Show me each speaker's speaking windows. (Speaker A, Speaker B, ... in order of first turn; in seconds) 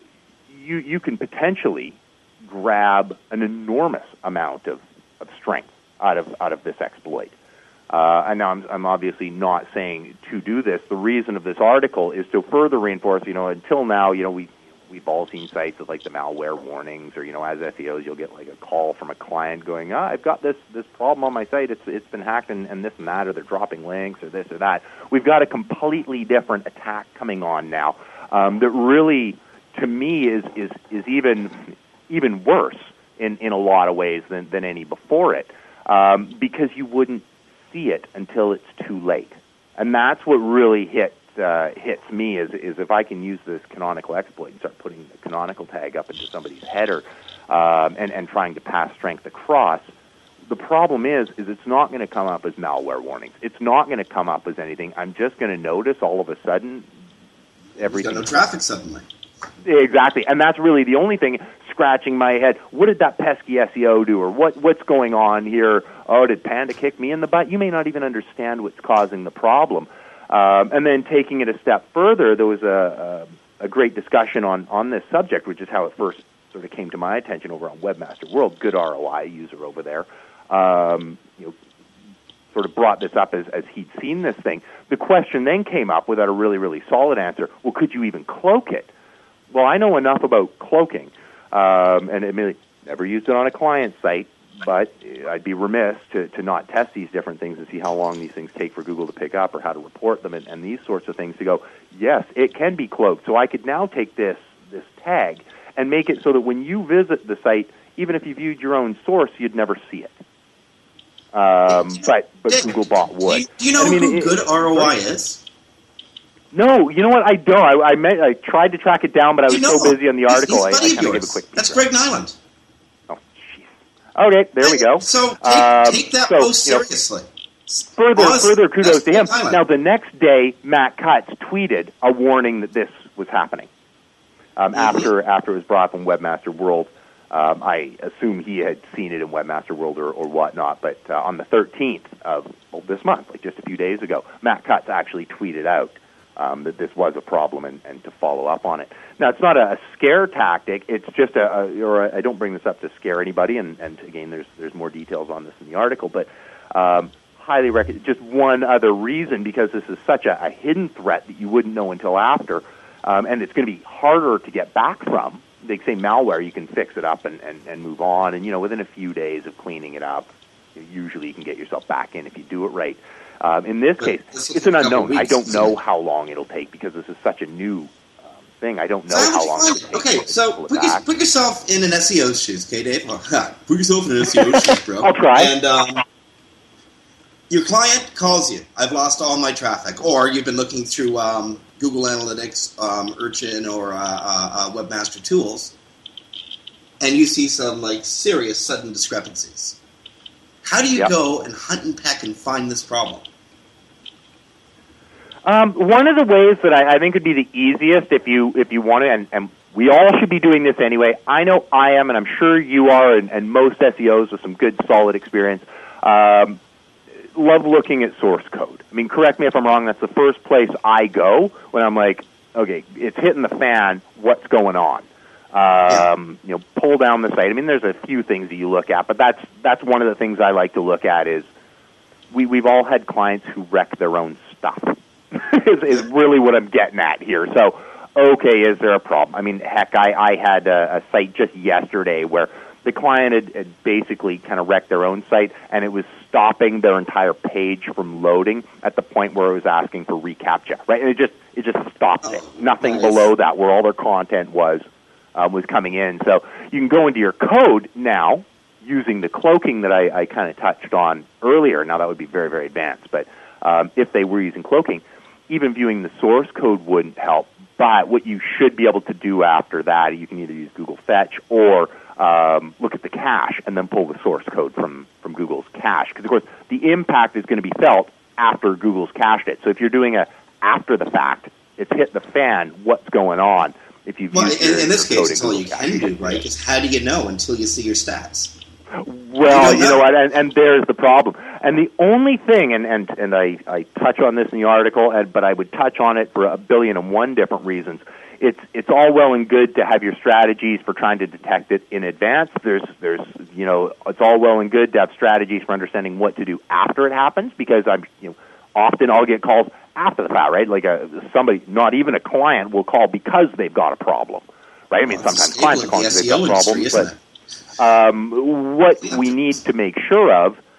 Speaker A: 0.5-7.3, 7.9-49.9, 50.5-56.9, 57.8-58.4, 59.6-81.5, 82.5-88.9, 89.5-110.2, 111.3-114.9, 116.5-121.8, 123.1-126.8, 128.0-133.7, 134.6-181.0, 184.3-185.5, 205.4-216.6, 217.3-231.5, 232.3-286.4, 289.0-317.1, 317.8-320.6
Speaker B: 57.8-59.0, 112.5-115.4, 119.5-122.3, 124.6-127.2, 127.8-129.6, 134.7-135.1, 174.0-175.7, 179.1-186.0, 187.5-195.7, 197.0-199.8, 200.6-203.2, 252.2-253.3, 284.3-288.6, 289.4-290.0, 315.1-317.2, 319.1-319.3